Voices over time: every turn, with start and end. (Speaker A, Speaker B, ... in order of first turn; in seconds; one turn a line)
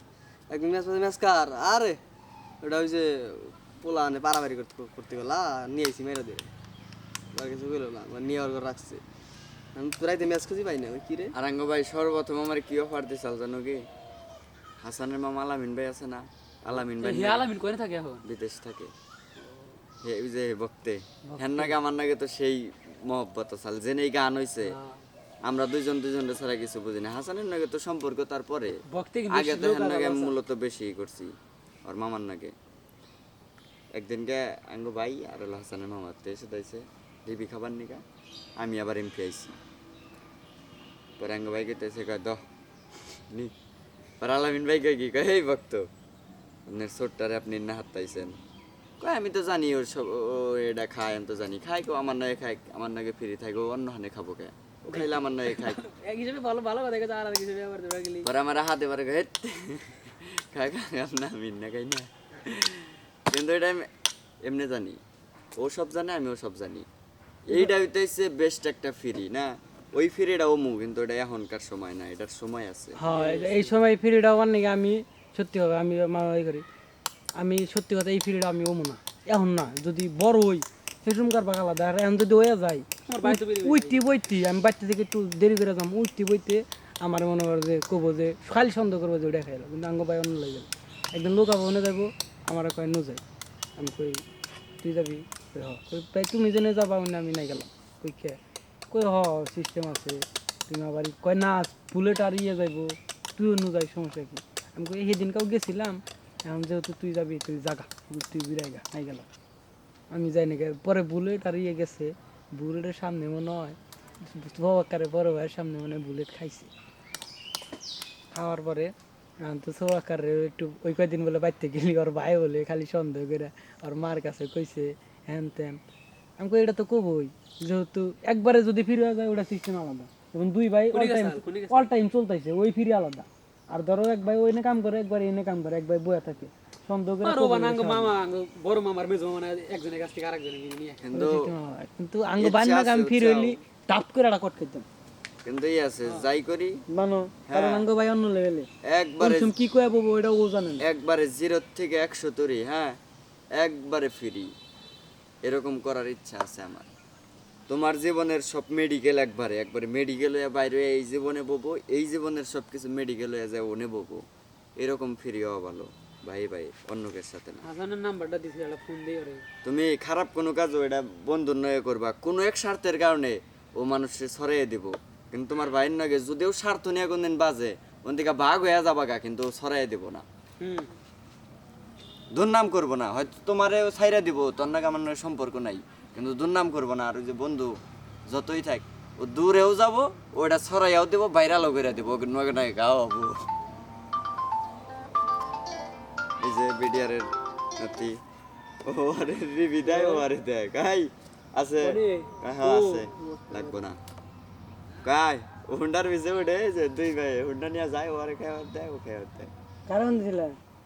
Speaker A: 0.5-2.0
Speaker A: 2.6-6.5
Speaker A: 7.3-9.0
Speaker A: 9.7-11.3
Speaker B: 11.3-13.9
Speaker B: 14.8-17.5
Speaker C: 16.7-18.3
Speaker B: 18.2-18.9
Speaker C: 19.4-19.7
Speaker B: 20.0-24.8
Speaker C: 21.3-21.8
Speaker C: 24.7-25.0
Speaker B: 25.4-31.3
Speaker C: 28.9-30.4
Speaker B: 31.8-32.5
Speaker B: 33.9-38.0
Speaker B: 38.6-39.5
Speaker B: 41.2-42.4
Speaker B: 44.2-45.9
Speaker B: 46.7-48.4
Speaker B: 49.0-55.8
Speaker C: 54.9-58.3
Speaker B: 58.2-63.9
Speaker B: 64.4-65.0
Speaker B: 65.6-66.9
Speaker B: 67.5-73.0
Speaker D: 73.0-76.6
Speaker C: 73.0-73.8
Speaker D: 77.4-93.2
Speaker C: 83.1-84.0
Speaker D: 93.8-94.2
Speaker D: 94.8-98.4
Speaker D: 98.9-109.3
Speaker D: 110.1-116.7
Speaker D: 118.3-125.8
Speaker D: 126.4-138.1
Speaker C: 130.9-131.9
Speaker C: 137.2-141.0
Speaker B: 141.0-141.5
Speaker D: 141.1-144.8
Speaker B: 142.4-143.6
Speaker B: 145.4-146.8
Speaker C: 146.0-146.3
Speaker D: 146.9-148.7
Speaker B: 147.5-147.9
Speaker B: 148.8-149.5
Speaker D: 149.2-150.8
Speaker B: 150.8-153.0
Speaker B: 153.5-154.5
Speaker B: 155.4-156.9
Speaker B: 157.7-164.2
Speaker B: 164.8-167.6
Speaker C: 167.6-169.4
Speaker B: 169.6-180.2
Speaker C: 180.6-180.9
Speaker B: 182.3-193.4
Speaker B: 196.4-198.2
Speaker B: 198.8-204.0
Speaker C: 199.8-200.2
Speaker C: 201.8-203.8
Speaker B: 205.0-209.5
Speaker D: 209.9-210.6